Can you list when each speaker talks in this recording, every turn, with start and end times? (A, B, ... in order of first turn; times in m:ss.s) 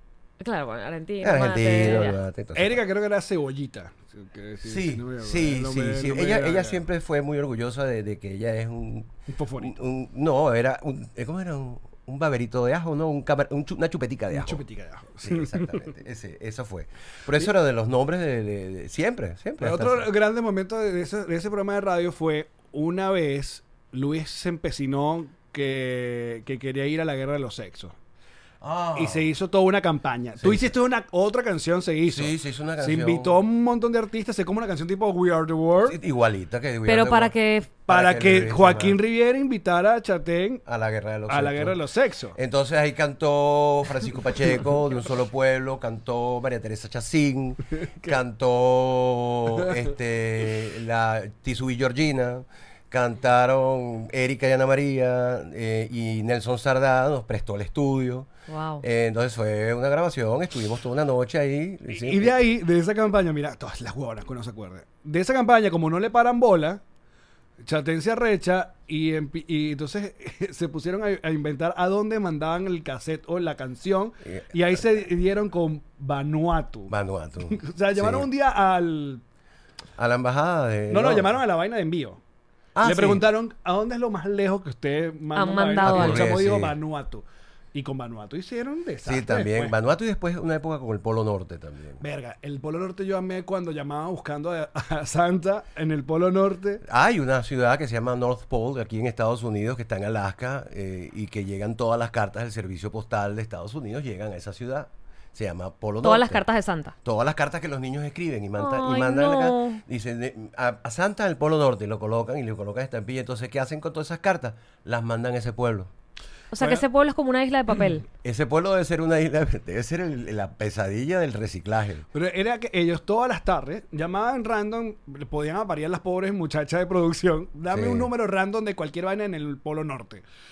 0:00.4-0:02.2 A
0:01.2-0:02.8 B
0:02.6-0:06.8 C
0:04.6-0:14.6 B
0:09.3-0:09.8 C
0:14.3-0:15.9 C
0:15.2-0:20.1 B
0:19.6-0:28.0 C
0:28.6-0:29.3 B
0:28.9-0:36.0 C
0:30.4-0:30.7 B
0:32.1-0:33.4 B
0:35.8-0:37.4 B
0:36.9-0:37.7 A
0:37.9-0:40.6 C
0:37.9-0:39.0 B
0:40.7-0:41.8 B
0:41.3-0:42.4 C
0:42.4-0:58.3 B
0:58.5-0:58.8 A
0:58.8-1:02.4 B
1:01.9-1:06.8 C
1:07.6-1:16.9 C
1:14.3-1:15.0 B
1:16.9-1:18.3 B
1:17.5-1:19.2 C
1:20.0-1:21.3 B
1:20.9-1:22.2 C
1:22.8-1:23.2 B
1:22.8-1:29.8 C
1:25.4-1:26.3 A
1:25.8-1:26.8 B
1:29.0-1:32.0 B
1:32.0-1:36.8 C
1:36.8-1:46.4 B
1:46.0-1:46.9 A
1:47.0-1:55.9 B
1:48.6-1:49.8 A
1:56.5-1:58.0 A
1:58.2-2:02.1 B
2:02.1-2:10.2 C
2:07.7-2:08.1 B